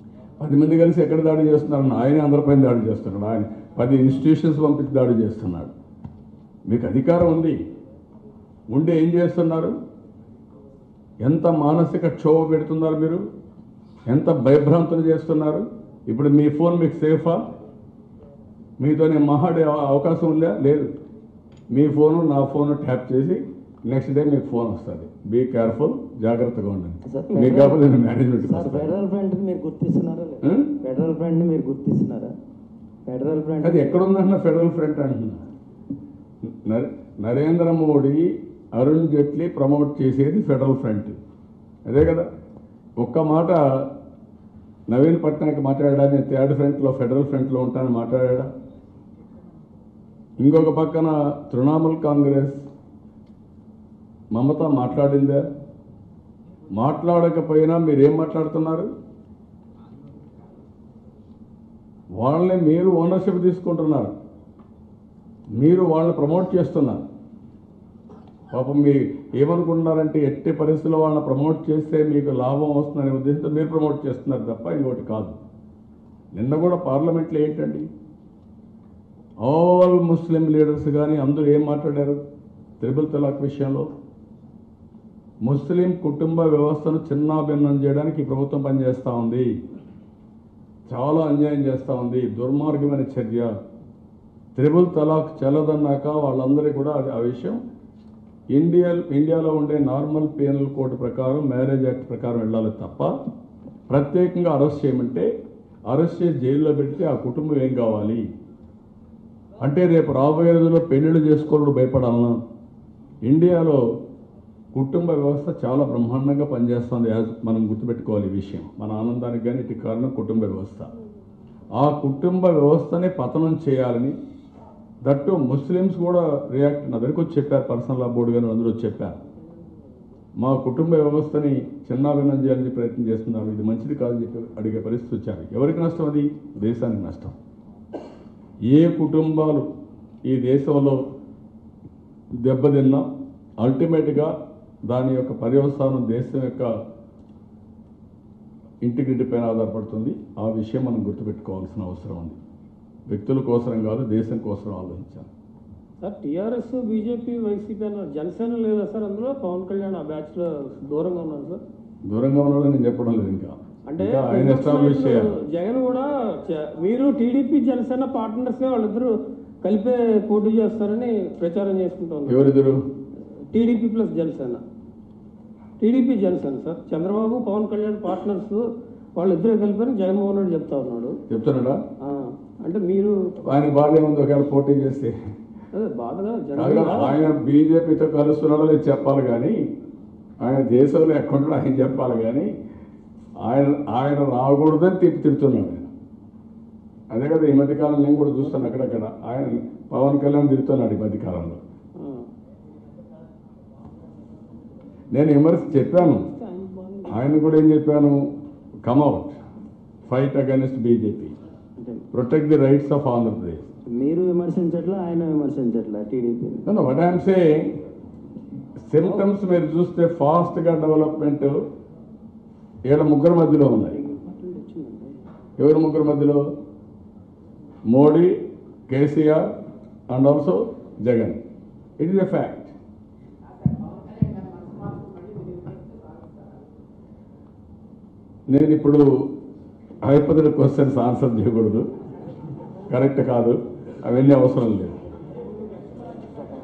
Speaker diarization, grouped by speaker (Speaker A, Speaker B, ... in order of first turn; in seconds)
Speaker A: 0.4-5.7, 6.7-7.6, 8.7-9.8, 11.2-13.2, 14.1-17.4, 18.8-20.9, 21.7-29.0, 30.4-30.8, 33.6-35.4, 36.5-41.2, 41.9-42.3, 43.0-43.9, 44.9-48.5, 50.4-52.6, 54.3-55.4, 56.8-58.9, 62.2-64.1, 65.6-67.1, 68.5-75.4, 76.3-77.9, 79.4-82.2, 82.8-83.9, 85.4-89.5, 90.9-93.5, 94.5-97.6, 98.5-103.1, 103.9-105.3, 105.9-108.2, 109.6-112.4, 113.2-113.8, 114.7-120.9, 121.8-124.2, 125.0-129.2, 130.4-137.3, 138.7-139.7, 140.2-141.0, 142.3-143.1, 143.6-144.3, 144.9-146.7, 148.8-152.4, 153.1-155.3, 162.1-165.3, 172.3-172.8, 181.3-181.8, 183.5-185.1, 186.6-189.6, 190.4-192.5, 193.4-195.9, 197.1-201.6, 205.1-206.3, 207.1-208.3, 208.8-209.4, 210.1-211.3, 212.1-213.6, 216.7-217.7, 218.9-221.6, 222.9-224.0, 225.6-226.4, 227.9-228.4, 228.9-229.5, 230.1-231.4, 232.0-232.8, 238.5-239.3, 240.1-241.9, 242.9-245.0
Speaker B: 27.1-27.8, 28.4-32.3, 33.1-34.0, 214.0-216.7
Speaker C: 156.0-161.6, 163.9-172.5, 173.5-174.6, 175.8-178.6, 179.2-181.2, 182.0-183.1, 185.7-187.2, 202.0-202.3, 205.9-207.4, 219.0-219.3, 223.9-225.2